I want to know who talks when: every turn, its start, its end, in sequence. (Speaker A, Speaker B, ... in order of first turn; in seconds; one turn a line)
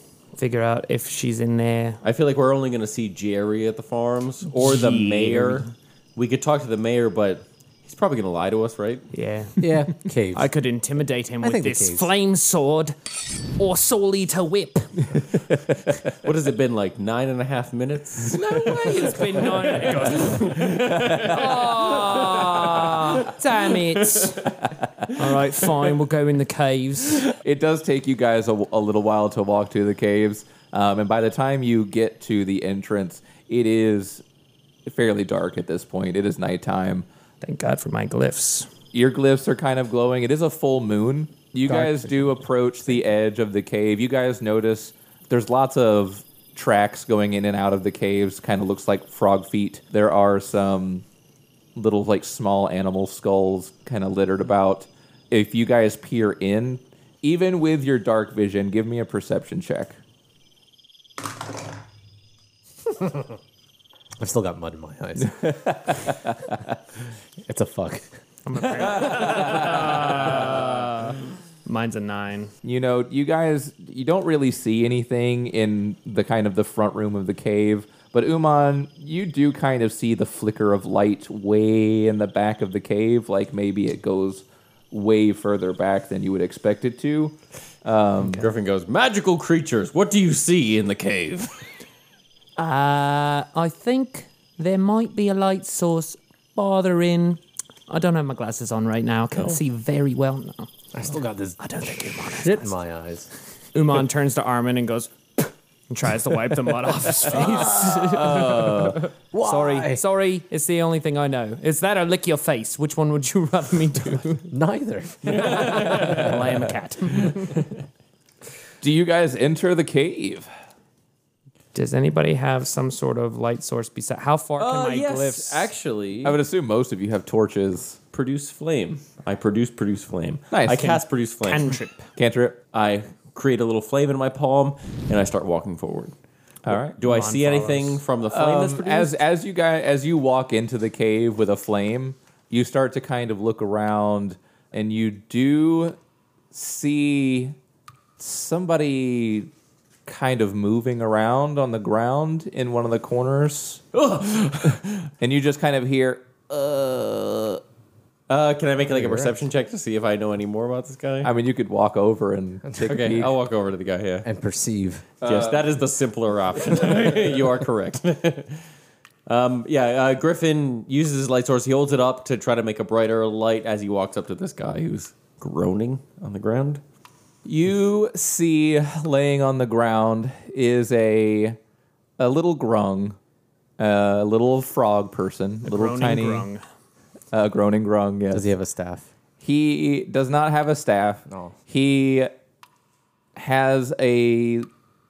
Speaker A: 0.3-2.0
Speaker B: 2.0-9.1
Speaker A: 4.6-5.7
Speaker A: 9.1-9.6
Speaker C: 9.6-10.5
Speaker A: 10.3-15.1
Speaker C: 11.4-12.1
Speaker B: 16.1-24.4
Speaker A: 18.3-24.5
Speaker D: 18.5-19.1
Speaker D: 20.7-21.4
Speaker A: 25.1-27.3
Speaker D: 27.4-34.2
Speaker D: 34.9-37.0
Speaker A: 37.4-38.7
Speaker D: 38.9-51.0
Speaker C: 41.6-42.4
Speaker D: 51.8-60.0
Speaker C: 64.2-65.5
Speaker D: 65.2-66.5
Speaker C: 67.5-68.1
Speaker A: 68.5-72.5
Speaker D: 68.8-70.3
Speaker D: 72.6-88.5
Speaker A: 88.2-88.5
Speaker B: 88.3-91.7
Speaker A: 92.6-100.7
Speaker B: 99.3-99.6
Speaker C: 100.9-103.3
Speaker A: 101.6-102.7
Speaker A: 103.7-114.5
Speaker C: 107.3-108.1
Speaker D: 108.0-109.0
Speaker C: 109.3-110.0
Speaker C: 114.5-115.8
Speaker A: 115.3-117.6
Speaker B: 115.5-116.3
Speaker D: 118.8-120.5
Speaker A: 121.7-125.7
Speaker B: 124.6-126.4
Speaker D: 126.2-128.0
Speaker B: 128.1-131.8
Speaker D: 130.5-131.0
Speaker A: 131.4-132.1
Speaker D: 132.2-132.6
Speaker B: 132.7-136.1
Speaker D: 136.6-137.0
Speaker B: 137.0-139.2
Speaker A: 137.0-138.0
Speaker D: 138.3-146.0
Speaker D: 146.5-147.6
Speaker D: 148.2-149.5
Speaker D: 150.1-153.8
Speaker B: 153.9-155.1
Speaker D: 155.2-157.6
Speaker B: 158.3-161.3
Speaker C: 158.9-159.3
Speaker D: 161.2-163.3
Speaker B: 162.8-164.2
Speaker C: 164.2-165.1
Speaker D: 165.2-165.7
Speaker B: 165.2-168.6
Speaker B: 169.2-176.8
Speaker D: 177.4-181.6
Speaker D: 182.2-183.2
Speaker D: 183.8-186.5
Speaker A: 185.7-186.6
Speaker D: 187.3-188.5
Speaker C: 188.3-189.1
Speaker D: 189.4-192.3
Speaker C: 191.3-191.5
Speaker D: 193.3-194.7